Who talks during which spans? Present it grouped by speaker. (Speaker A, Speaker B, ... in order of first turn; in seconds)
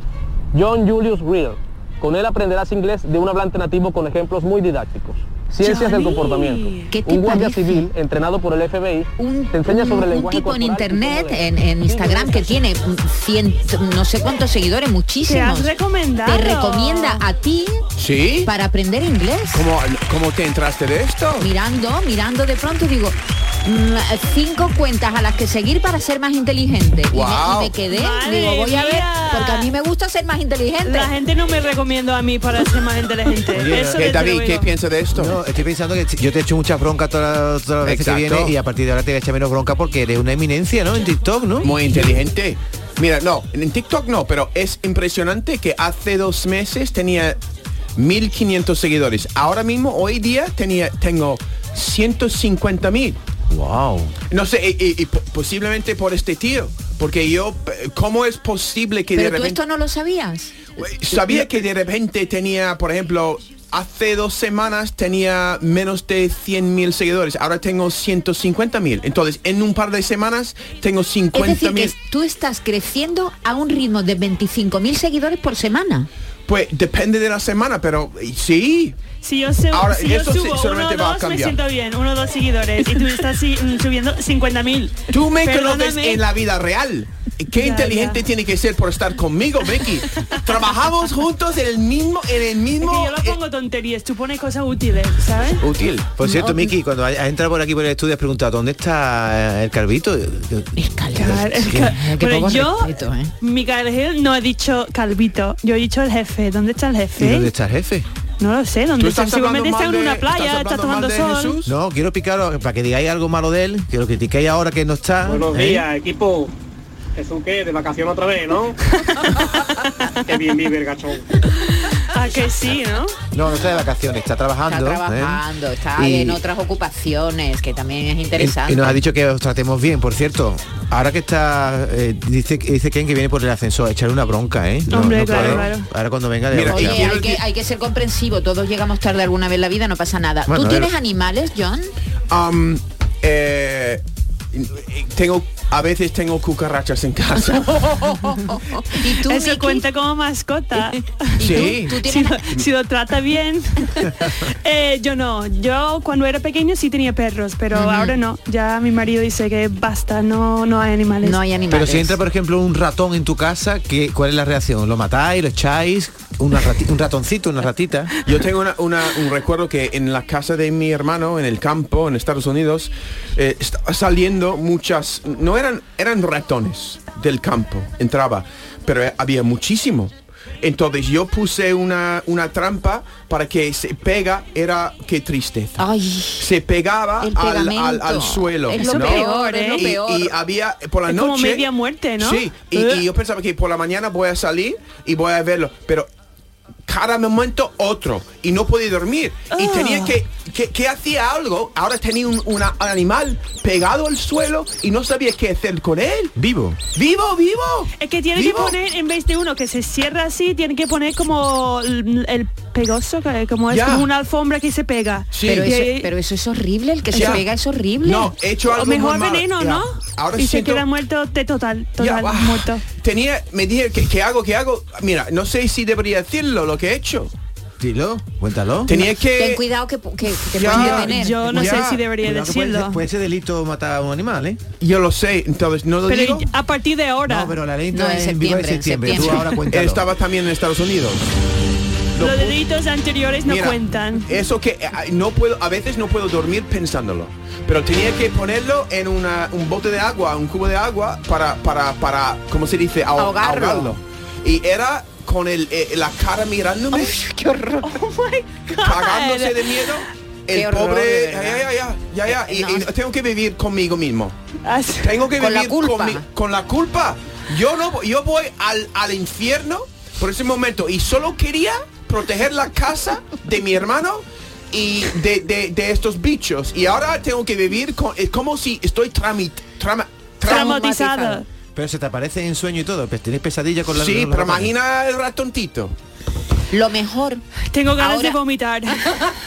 Speaker A: 0.5-12.7
Speaker B: 5.7-6.9, 15.3-17.2, 27.9-29.7, 30.8-34.8, 79.2-86.2, 87.5-88.2, 92.8-95.7, 101.2-107.5, 108.4-111.6, 121.8-123.2, 134.9-135.9, 149.2-161.4, 188.7-189.9, 191.1-193.0, 199.5-200.2, 208.0-216.1, 217.1-217.4, 218.7-222.8, 230.6-233.0, 236.1-237.5, 242.2-244.3, 258.8-259.9, 264.6-265.2, 280.4-281.5, 287.6-289.2
Speaker C: 5.7-6.0, 6.9-7.9, 9.2-15.7, 16.2-17.9, 18.4-19.6, 21.4-31.1, 59.1-60.6, 61.1-61.4, 71.3-76.1, 96.3-96.6, 100.8-103.3, 124.7-129.0, 136.7-141.9, 148.3-149.8, 151.4-152.5, 157.7-158.2, 161.2-162.2, 185.8-186.5, 187.2-190.3, 215.5-218.3, 228.9-231.8, 237.9-239.5, 253.2-254.0, 256.9-258.7, 260.5-261.7, 262.3-262.9, 265.4-266.2, 280.5-281.4, 286.7-287.4, 288.0-288.4
Speaker D: 18.0-18.5, 19.5-21.5, 27.1-27.8, 34.0-35.4, 37.8-38.5, 41.6-47.4, 48.0-53.2, 54.3-59.6, 60.8-71.9, 76.5-79.1, 79.7-81.6, 85.1-93.4, 95.6-96.2, 109.0-111.7, 136.5-137.4, 142.3-144.0, 144.5-148.2, 151.4-152.0, 168.2-185.8, 186.4-191.7, 192.2-196.1, 196.9-206.3, 206.9-208.8, 213.7-214.1, 215.3-215.7, 217.1-217.4, 218.0-220.8, 222.0-227.3, 228.9-229.6, 230.6-232.1, 234.8-236.5, 239.7-241.3, 242.2-242.6, 243.4-257.1, 258.8-264.4, 265.0-280.8, 283.9-285.9
Speaker E: 33.5-34.1, 35.1-42.0, 53.5-54.1, 96.2-101.9, 107.2-108.1, 111.7-115.9, 123.3-125.4, 126.0-126.4, 128.4-137.2, 140.5-140.9, 161.7-168.1, 206.4-206.8, 227.8-229.0, 232.2-234.6, 237.3-240.0, 281.8-284.7
Speaker F: 115.2-116.5, 117.2-118.8, 120.3-121.2